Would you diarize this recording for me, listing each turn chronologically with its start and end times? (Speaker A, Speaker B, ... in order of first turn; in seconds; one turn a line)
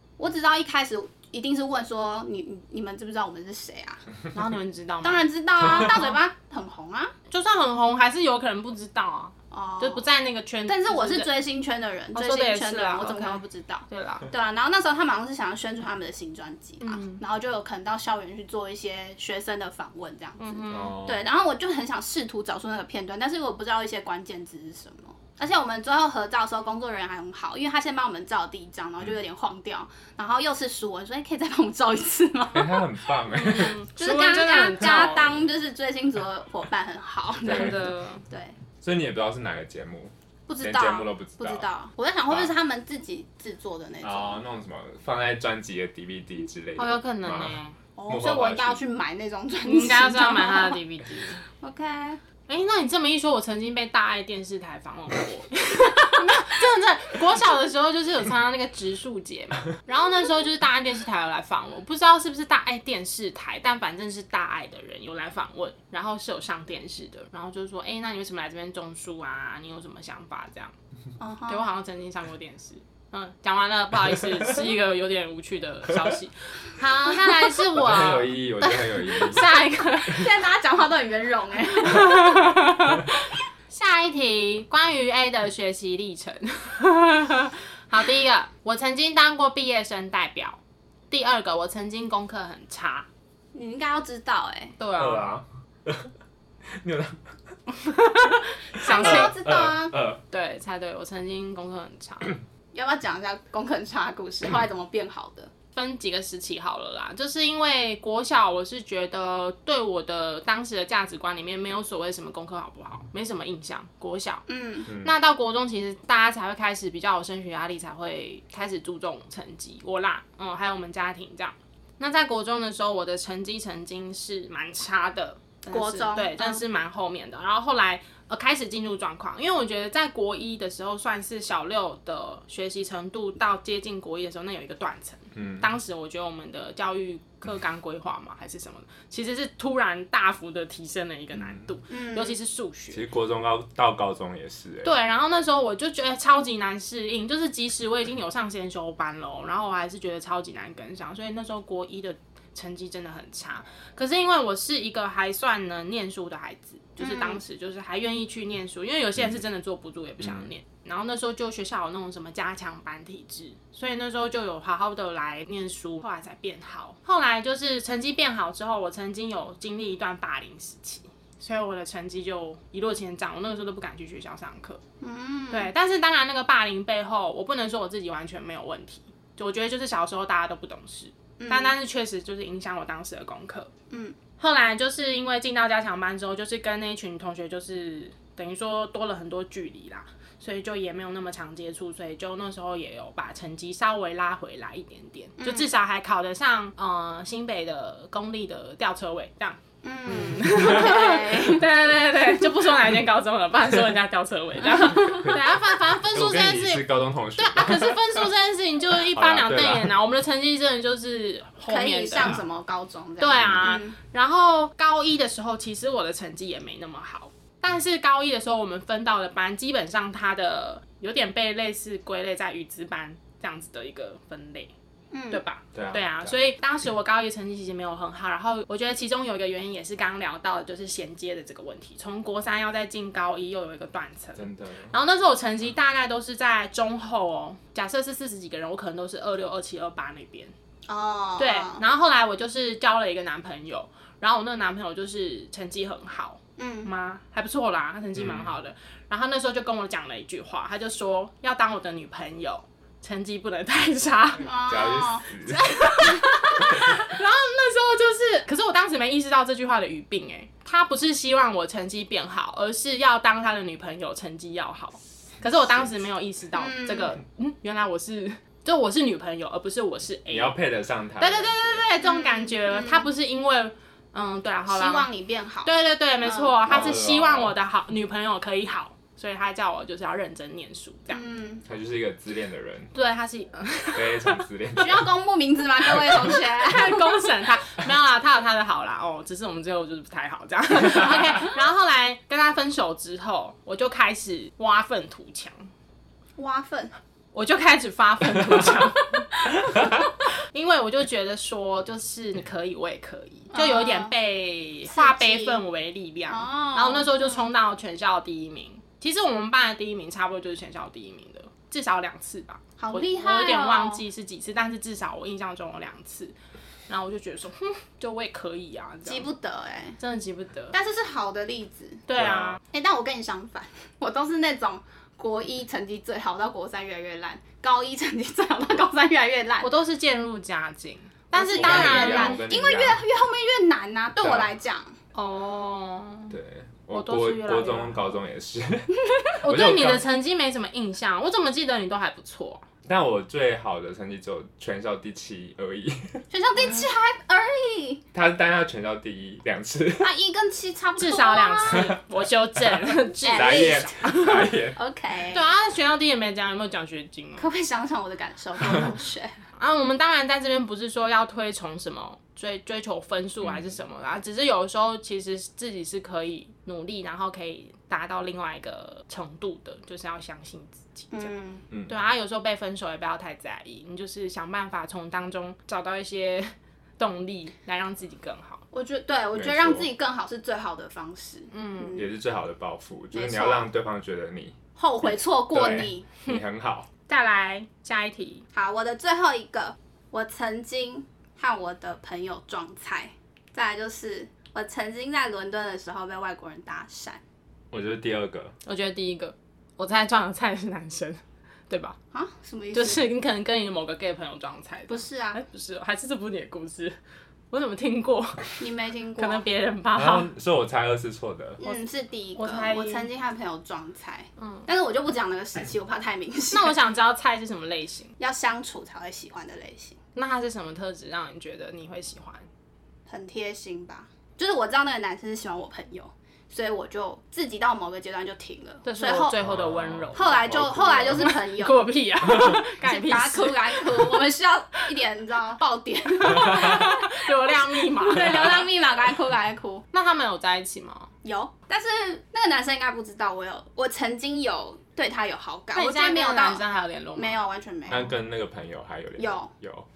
Speaker A: 0.2-4.0
Speaker B: 4.3-6.2
Speaker A: 5.0-7.1
Speaker B: 7.3-11.3
Speaker A: 9.5-10.0
Speaker A: 10.7-32.9
Speaker B: 12.1-14.3
Speaker B: 16.8-17.2
Speaker B: 20.4-21.0
Speaker C: 20.7-21.2
Speaker C: 32.5-33.8
Speaker B: 33.3-35.3
Speaker A: 34.0-38.5
Speaker B: 37.4-38.2
Speaker C: 37.5-37.8
Speaker C: 38.8-41.6
Speaker A: 40.5-44.4
Speaker C: 44.0-48.8
Speaker B: 46.8-47.8
Speaker A: 48.0-50.8
Speaker B: 49.6-51.4
Speaker A: 51.5-52.2
Speaker B: 52.5-70.7
Speaker A: 71.2-71.6
Speaker B: 71.5-80.3
Speaker C: 77.7-79.5
Speaker A: 79.1-82.5
Speaker B: 81.9-90.6
Speaker B: 91.1-93.1
Speaker A: 93.5-94.8
Speaker B: 94.8-95.4
Speaker C: 95.0-96.1
Speaker C: 96.7-97.2
Speaker B: 98.0-99.3
Speaker A: 98.8-99.9
Speaker C: 98.9-100.2
Speaker B: 100.3-102.4
Speaker A: 102.7-105.5
Speaker B: 105.7-114.5
Speaker A: 114.5-114.9
Speaker C: 114.9-115.1
Speaker B: 115.0-143.0
Speaker A: 125.7-126.6
Speaker C: 135.3-135.7
Speaker C: 141.3-141.7
Speaker A: 141.9-142.4
Speaker C: 142.9-145.0
Speaker B: 144.8-174.8
Speaker A: 157.0-157.4
Speaker C: 160.2-160.5
Speaker A: 175.0-175.7
Speaker B: 175.5-183.7
Speaker A: 181.4-181.8
Speaker A: 183.9-184.2
Speaker B: 184.4-212.4
Speaker A: 195.4-195.7
Speaker A: 199.8-201.7
Speaker C: 200.3-200.8
Speaker C: 204.9-205.4
Speaker C: 206.1-208.2
Speaker C: 209.1-209.9
Speaker A: 211.7-214.0
Speaker B: 213.2-224.7
Speaker C: 213.4-213.7
Speaker A: 225.1-225.4
Speaker B: 225.3-240.5
Speaker C: 225.7-226.4
Speaker C: 234.4-234.9
Speaker A: 240.9-241.8
Speaker B: 241.4-254.5
Speaker A: 246.6-246.9
Speaker C: 248.2-248.5
Speaker A: 254.4-255.3
Speaker C: 254.7-255.7
Speaker B: 255.4-270.6
Speaker C: 265.6-265.9
Speaker A: 266.6-267.1
Speaker C: 270.3-271.8
Speaker B: 271.2-275.1
Speaker A: 272.0-273.1
Speaker A: 274.7-276.8
Speaker B: 275.6-281.2
Speaker C: 276.7-277.6
Speaker A: 281.1-281.6
Speaker C: 281.7-282.9
Speaker B: 282.9-284.4
Speaker C: 283.9-285.1
Speaker A: 284.8-287.2
Speaker B: 286.2-295.7
Speaker A: 296.4-296.9
Speaker B: 297.3-316.4
Speaker C: 299.7-299.9
Speaker A: 303.5-304.1
Speaker A: 304.9-305.6
Speaker A: 306.3-307.4
Speaker A: 312.8-314.0
Speaker B: 316.9-319.3
Speaker A: 319.1-320.0
Speaker B: 320.0-320.8
Speaker A: 320.7-322.1
Speaker B: 322.1-322.6
Speaker C: 322.2-322.6
Speaker A: 322.6-329.7
Speaker B: 329.6-332.4
Speaker A: 331.3-335.0
Speaker C: 331.6-333.0
Speaker C: 334.2-334.5
Speaker B: 335.1-336.4
Speaker C: 336.3-340.0
Speaker B: 336.9-338.0
Speaker B: 339.4-342.6
Speaker C: 342.9-346.2
Speaker A: 346.3-348.0
Speaker C: 348.1-350.1
Speaker A: 350.0-351.9
Speaker B: 351.0-354.5
Speaker C: 351.7-352.0
Speaker C: 352.6-354.8
Speaker A: 353.2-354.0
Speaker A: 354.8-355.5
Speaker B: 355.3-357.5
Speaker A: 357.4-359.4
Speaker B: 359.6-371.3
Speaker C: 363.4-363.7
Speaker A: 371.1-371.6
Speaker C: 371.7-372.0
Speaker B: 371.9-378.6
Speaker A: 378.7-382.1
Speaker C: 379.3-379.9
Speaker B: 381.5-382.0
Speaker C: 381.9-386.9
Speaker A: 383.1-383.7
Speaker A: 384.8-386.1
Speaker B: 387.1-388.4
Speaker A: 388.5-397.2
Speaker C: 397.7-398.5
Speaker B: 398.6-402.0
Speaker A: 402.1-403.1
Speaker B: 402.7-407.0
Speaker A: 404.9-405.4
Speaker B: 407.5-408.4
Speaker A: 408.6-409.4
Speaker B: 409.2-410.3
Speaker C: 409.9-411.6
Speaker A: 411.6-416.7
Speaker B: 412.4-413.1
Speaker B: 414.4-414.7
Speaker B: 416.5-418.1
Speaker A: 418.2-420.0
Speaker B: 420.1-422.5
Speaker A: 423.1-429.4
Speaker B: 428.8-430.5
Speaker C: 429.4-431.3
Speaker A: 430.1-431.9
Speaker B: 431.1-434.2
Speaker C: 432.3-432.6
Speaker A: 432.6-439.8
Speaker B: 436.2-438.7
Speaker B: 439.9-441.1
Speaker A: 441.2-446.6
Speaker B: 445.8-447.4
Speaker A: 447.2-448.2
Speaker C: 447.9-449.9
Speaker A: 449.2-449.5